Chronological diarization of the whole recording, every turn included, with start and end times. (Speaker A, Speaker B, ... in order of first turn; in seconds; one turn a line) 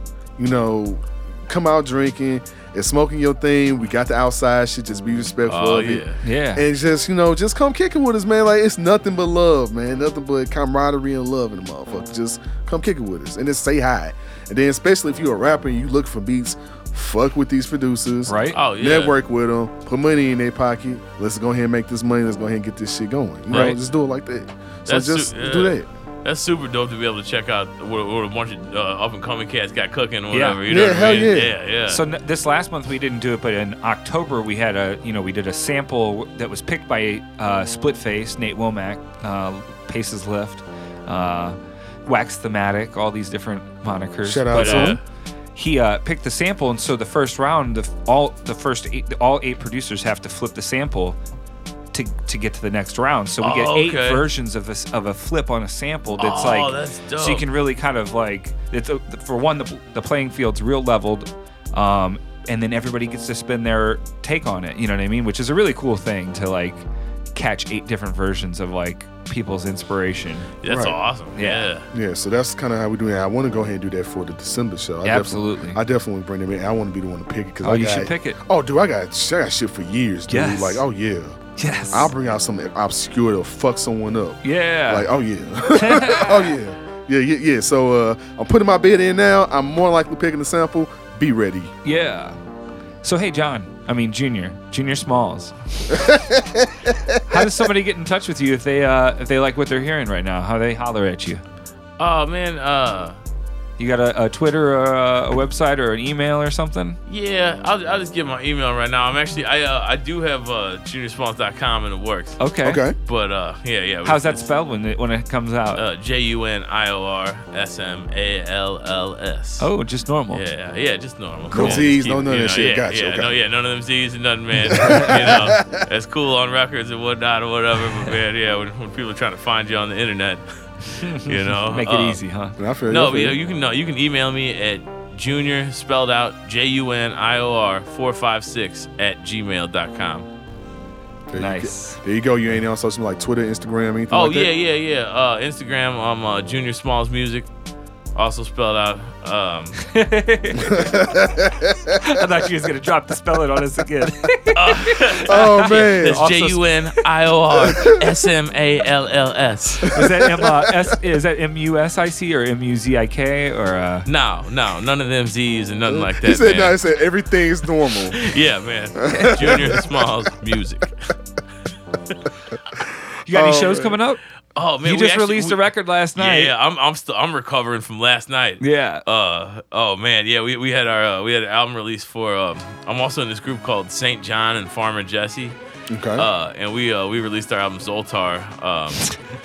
Speaker A: 0.4-25.9
Speaker B: 5.5-6.2
Speaker C: 6.2-6.6
Speaker C: 18.3-18.6
Speaker B: 18.5-19.1
Speaker C: 23.5-23.8
Speaker B: 23.5-23.8
Speaker B: 24.9-32.0
Speaker C: 30.3-30.6
Speaker A: 30.7-31.5
Speaker C: 31.9-45.0
Speaker A: 44.2-45.0
Speaker B: 44.5-45.0
Speaker C: 45.5-51.2
Speaker C: 51.9-66.8
Speaker B: 53.4-54.3
Speaker B: 56.2-57.5
Speaker C: 67.3-70.5
Speaker B: 70.6-71.9
Speaker A: 70.7-71.0
Speaker C: 71.3-71.7
Speaker A: 71.9-91.7
Speaker C: 75.0-75.8
Speaker C: 77.6-78.4
Speaker C: 80.3-80.8
Speaker C: 81.6-82.1
Speaker C: 84.4-85.1
Speaker C: 85.7-86.5
Speaker C: 91.8-92.4
Speaker C: 93.0-96.1
Speaker A: 95.9-97.5
Speaker C: 97.3-101.4
Speaker B: 102.0-103.2
Speaker C: 103.8-107.0
Speaker B: 107.1-112.4
Speaker C: 112.4-112.8
Speaker A: 112.6-113.0
Speaker B: 113.0-114.4
Speaker C: 114.0-115.8
Speaker B: 115.7-119.7
Speaker C: 119.6-120.4
Speaker B: 120.3-132.2
Speaker C: 121.5-121.8
Speaker A: 121.5-123.3
Speaker A: 124.7-125.8
Speaker C: 124.8-125.2
Speaker C: 131.0-132.6
Speaker A: 132.6-133.4
Speaker B: 132.9-140.3
Speaker A: 141.3-144.5
Speaker C: 141.3-142.0
Speaker B: 144.1-147.5
Speaker B: 148.1-149.8
Speaker C: 149.8-151.3
Speaker A: 150.6-152.0
Speaker C: 151.9-156.8
Speaker B: 154.5-159.9
Speaker A: 155.2-156.3
Speaker A: 157.6-158.3
Speaker A: 159.8-160.9
Speaker C: 159.9-164.1
Speaker B: 164.1-166.8
Speaker A: 165.9-168.3
Speaker B: 167.9-170.9
Speaker A: 169.0-169.9
Speaker C: 169.1-169.6
Speaker C: 173.2-174.2
Speaker A: 173.3-174.0
Speaker B: 174.5-185.6
Speaker C: 174.8-176.5
Speaker C: 178.6-179.0
Speaker A: 185.9-186.3
Speaker B: 186.2-189.2